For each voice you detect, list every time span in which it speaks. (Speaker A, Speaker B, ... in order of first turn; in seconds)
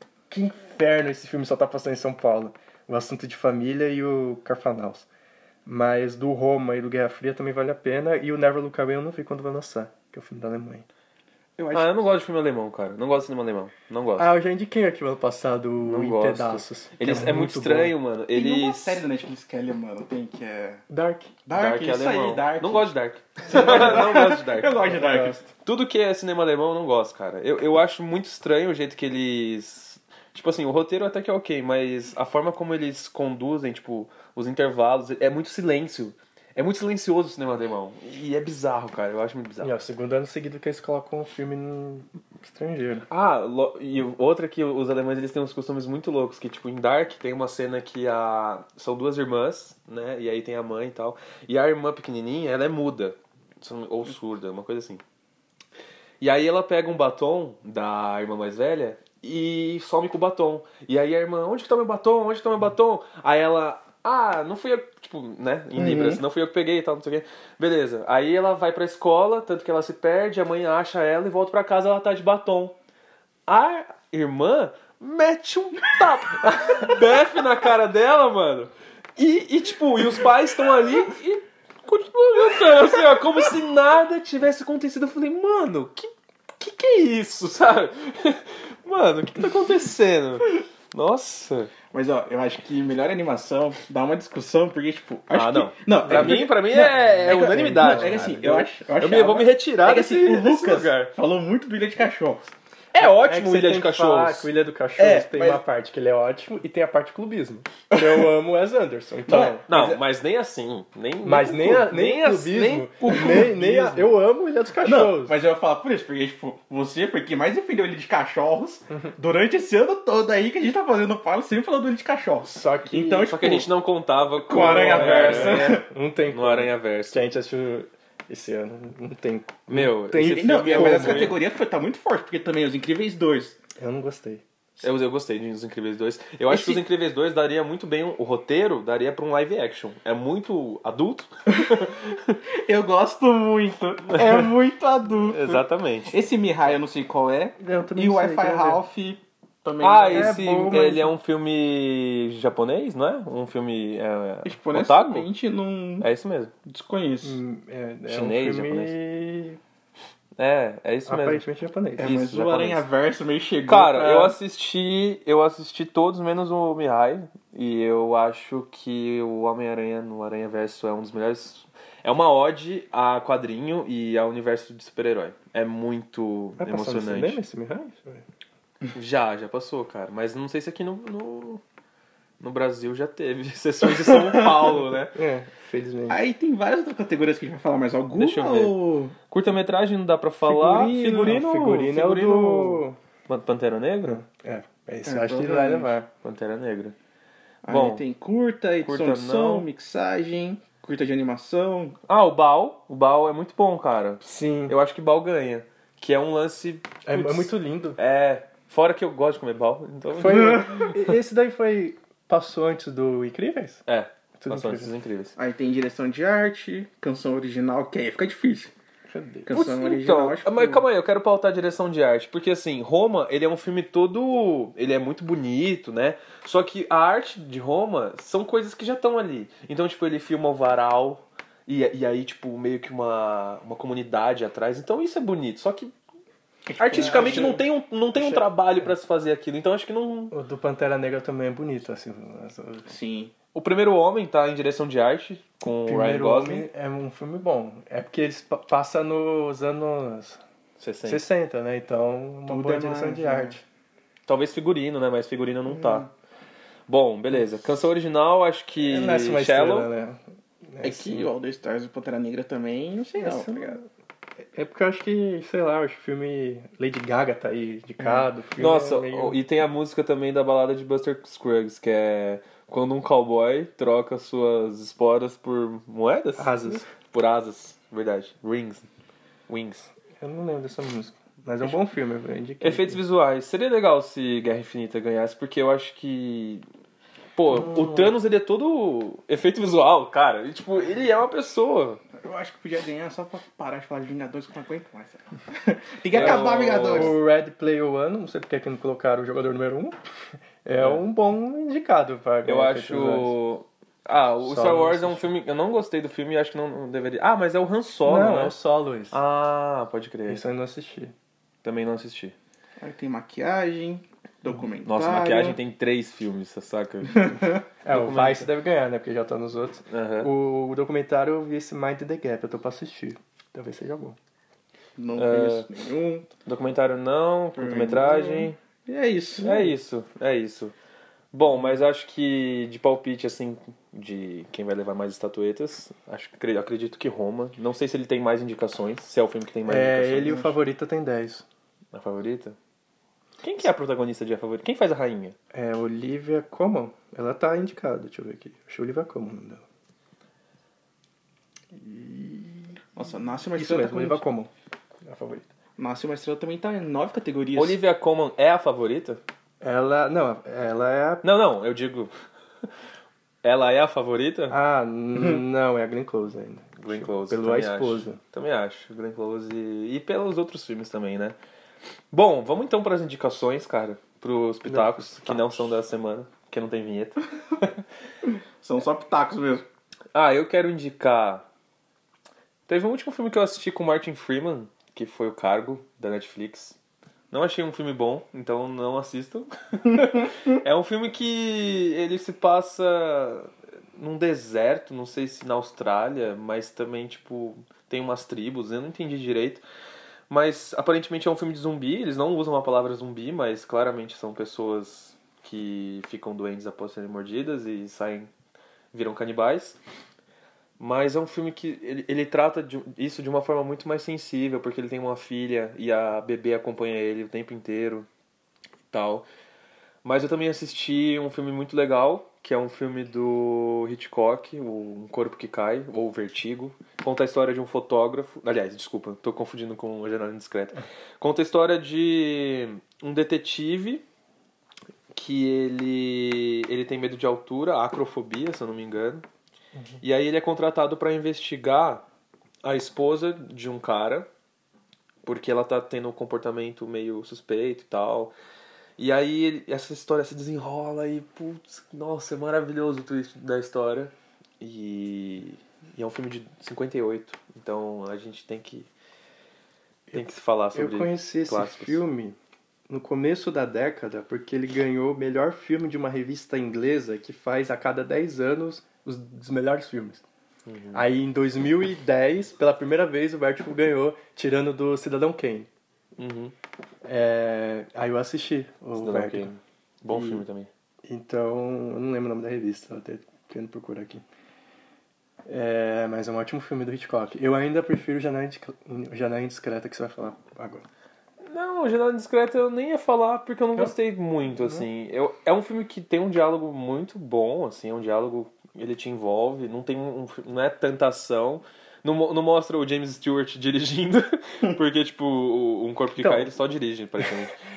Speaker A: 0.3-5.1, 5.7-10.9, 14.2-17.9, 20.9-21.4, 24.8-25.4, 39.6-43.1, 96.1-96.5, 97.5-98.4, 103.0-109.7, 111.2-115.3, 122.5-123.3, 124.5-131.4, 133.8-134.4, 147.6-148.8, 150.1-151.1, 157.2-159.6, 161.1-162.1, 176.6-178.2, 185.1-186.2, 191.1-193.0, 194.1-196.1, 204.2-204.8, 207.1-208.0, 210.2-213.8, 214.4-214.9, 219.1-219.5, 237.0-237.6, 238.1-238.9, 240.3-242.9, 245.9-250.4, 251.1-253.6, 258.8-261.3, 263.2-263.9, 264.5-269.4, 276.4-276.9, 280.2-283.0, 287.5-288.1, 296.2-300.0, 300.6-303.4, 304.4-305.3, 308.1-309.2, 310.3-311.1, 317.8-324.2, 339.7-341.4, 345.5-349.6, 351.7-352.8, 353.5-354.5, 355.1-355.4, 359.6-361.2, 364.5-368.2, 374.6-375.7, 439.8-440.0, 460.1-462.4, 462.9-470.2, 470.9-475.7, 477.0-479.6, 480.1-480.4, 481.1-484.2, 485.5-490.9, 494.6-494.9, 506.2-506.6
Speaker B: 11.6-12.0, 18.3-20.8, 21.5-22.9, 23.4-25.5, 65.8-66.2, 91.9-102.5, 105.0-105.6, 107.9-108.3, 109.3-110.0, 113.1-113.6, 114.8-123.7, 124.5-125.8, 130.3-133.6, 136.5-136.8, 141.5-141.9, 142.5-150.4, 154.4-156.1, 156.7-157.4, 162.0-164.4, 183.8-184.8, 186.1-189.2, 190.4-191.4, 195.1-195.9, 197.6-202.0, 215.4-218.7, 219.5-220.8, 236.7-237.6, 242.9-243.3, 252.5-253.6, 260.8-263.8, 292.2-297.2, 312.8-315.6, 317.1-317.6, 325.0-326.3, 327.6-329.7, 353.0-354.3, 355.8-357.8, 378.6-379.7
Speaker C: 11.7-14.3, 15.8-19.0, 21.5-24.8, 25.6-39.7, 43.1-55.0, 56.2-72.8, 73.5-91.7, 95.3-101.1, 102.9-104.5, 109.7-114.2, 123.3-127.2, 129.7-131.4, 134.8-142.4, 145.3-146.2, 149.8-155.3, 156.0-156.5, 158.1-158.9, 160.4-161.4, 162.0-162.8, 163.7-177.4, 178.9-181.6, 182.4-185.2, 188.2-194.2, 196.2-196.9, 197.7-198.0, 198.8-199.7, 202.1-210.9, 213.9-215.3, 219.5-235.9, 236.8-240.3, 243.5-246.7, 250.8-251.2, 254.3-256.1, 256.9-259.9, 268.6-278.9, 279.5-279.9, 282.6-286.6, 287.4-292.0, 296.1-297.2, 300.8-301.0, 302.4-308.6, 309.1-310.4, 311.6-312.4, 314.9-318.5, 319.9-320.3, 325.2-325.7, 326.4-328.6, 329.4-330.7, 331.3-340.6, 341.9-342.6, 343.4-345.4, 357.6-359.2, 361.2-362.1, 363.4-364.6, 366.8-371.4, 372.1-377.7, 380.1-381.4, 382.7-386.8, 387.3-399.6, 400.3-408.3, 408.9-409.8, 410.8-418.1, 418.9-419.3, 420.0-434.1, 435.1-439.3, 440.0-442.0, 442.6-444.3, 445.2-448.3, 449.0-458.9, 460.1-462.0, 470.7-471.0, 476.2-476.5, 479.0-480.7, 491.4-507.6